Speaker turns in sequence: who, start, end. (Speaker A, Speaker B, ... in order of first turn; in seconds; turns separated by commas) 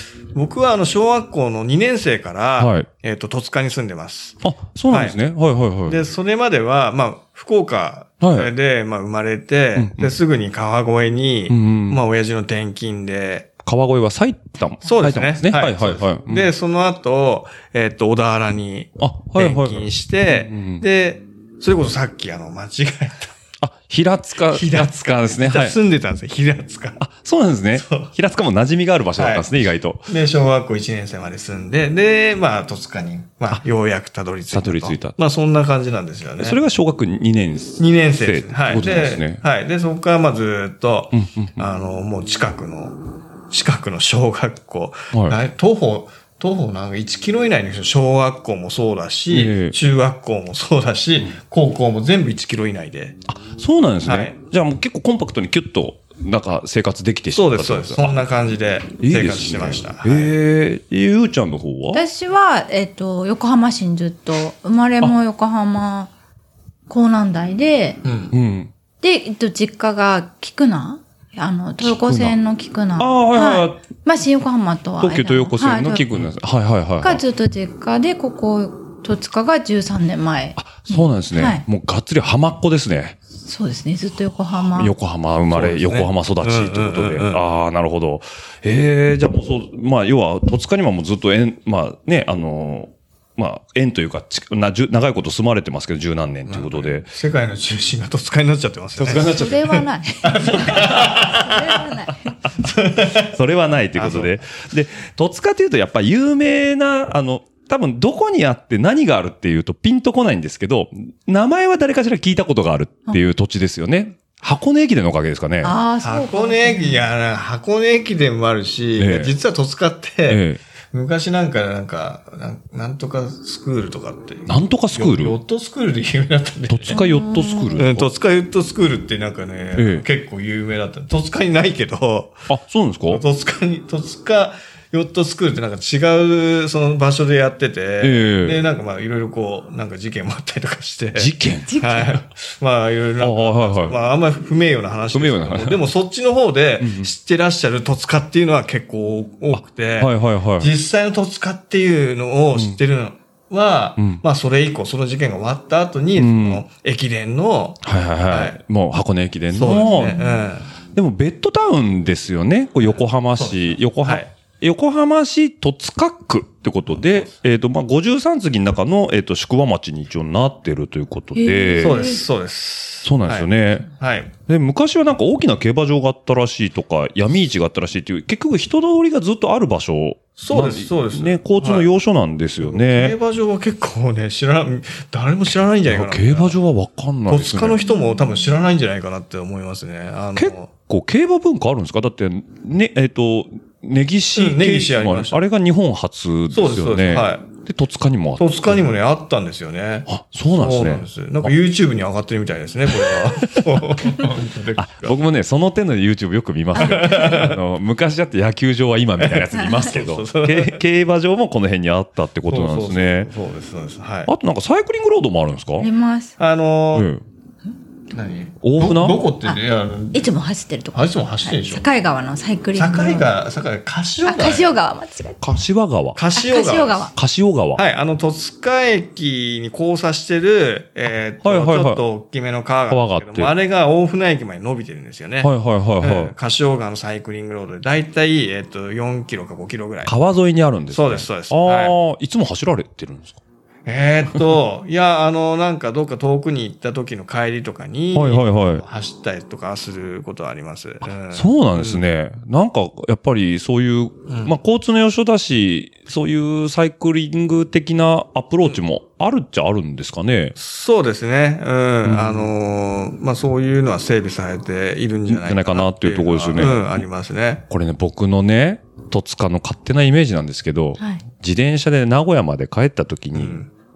Speaker A: 0.3-5.2, Speaker B: 2.6-2.9, Speaker B: 4.4-6.0, Speaker A: 5.8-13.5, Speaker B: 8.2-8.5, Speaker B: 9.8-10.1, Speaker B: 11.5-12.0, Speaker B: 13.6-16.5, Speaker A: 14.8-23.4, Speaker B: 19.0-20.8, Speaker B: 23.6-25.8, Speaker A: 24.5-27.0, Speaker B: 27.0-30.1, Speaker A: 27.7-28.1, Speaker A: 29.2-29.5, Speaker A: 30.1-36.6, Speaker B: 34.5-35.1, Speaker B: 36.4-39.4, Speaker A: 37.8-43.0, Speaker B: 41.1-41.6, Speaker A: 43.5-53.2, Speaker B: 45.1-45.4, Speaker B: 49.3-49.8, Speaker B: 53.3-58.2, Speaker A: 54.0-54.3, Speaker A: 57.3-60.3, Speaker B: 59.0-62.0, Speaker C: 61.9-66.1, Speaker C: 66.9-68.0, Speaker A: 68.0-68.3, Speaker B: 68.3-68.7, Speaker C: 69.0-76.1, Speaker B: 71.8-72.4, Speaker B: 73.0-73.8, Speaker B: 75.0-77.2, Speaker C: 77.0-81.6, Speaker B: 80.6-83.2, Speaker C: 83.4-84.9, Speaker B: 84.7-97.1, Speaker A: 85.5-87.4, Speaker A: 96.5-101.8, Speaker B: 99.0-99.8, Speaker C: 99.2-102.4, Speaker B: 100.6-101.2, Speaker A: 102.6-103.3, Speaker B: 103.1-115.8, Speaker A: 103.9-104.3, Speaker C: 115.6-117.0, Speaker A: 116.0-127.0, Speaker B: 119.0-119.3, Speaker B: 120.3-120.6, Speaker B: 124.5-125.4, Speaker B: 126.7-128.1, Speaker C: 126.9-127.8, Speaker A: 127.8-132.5, Speaker B: 129.8-130.0, Speaker B: 132.5-133.2, Speaker A: 133.1-158.6, Speaker B: 138.0-138.6, Speaker B: 141.1-141.8, Speaker C: 141.7-142.1, Speaker B: 143.2-144.0, Speaker B: 145.1-145.8, Speaker B: 146.8-147.1, Speaker B: 149.5-150.7, Speaker B: 154.0-154.2, Speaker B: 156.2-156.6, Speaker B: 157.8-160.2, Speaker A: 159.5-160.7, Speaker C: 159.8-160.5, Speaker B: 160.9-172.2, Speaker A: 163.3-164.3, Speaker A: 167.0-167.3, Speaker C: 171.3-172.2, Speaker A: 171.8-174.3, Speaker B: 173.0-173.9, Speaker B: 174.5-183.2, Speaker A: 180.4-181.9, Speaker A: 182.6-186.6, Speaker B: 185.9-187.8, Speaker A: 187.3-190.7, Speaker C: 187.9-188.3, Speaker B: 190.3-198.8, Speaker A: 194.3-195.4, Speaker A: 196.5-197.4, Speaker A: 198.4-205.2, Speaker B: 200.1-201.5, Speaker B: 202.9-213.3, Speaker A: 206.8-207.6, Speaker C: 206.8-207.3, Speaker A: 209.2-210.8, Speaker A: 212.5-214.3, Speaker B: 214.2-215.9, Speaker C: 215.8-216.3, Speaker A: 216.4-217.1, Speaker B: 216.9-217.2, Speaker A: 218.1-220.3, Speaker B: 218.6-219.2, Speaker C: 220.1-223.3, Speaker A: 220.9-221.8, Speaker A: 222.7-224.8, Speaker C: 224.2-225.4, Speaker B: 225.4-226.2, Speaker A: 226.1-227.1, Speaker C: 226.3-227.1, Speaker B: 227.1-227.8, Speaker A: 227.7-240.1, Speaker B: 231.4-232.0, Speaker B: 232.9-233.5, Speaker B: 235.4-236.3, Speaker B: 240.1-243.4, Speaker A: 240.9-241.9, Speaker A: 243.8-252.0, Speaker B: 248.1-248.8, Speaker B: 251.1-260.6, Speaker A: 254.3-254.5, Speaker A: 260.6-267.6, Speaker B: 262.0-262.5, Speaker B: 265.3-267.0, Speaker B: 267.7-273.6, Speaker C: 271.0-271.2, Speaker A: 273.3-273.7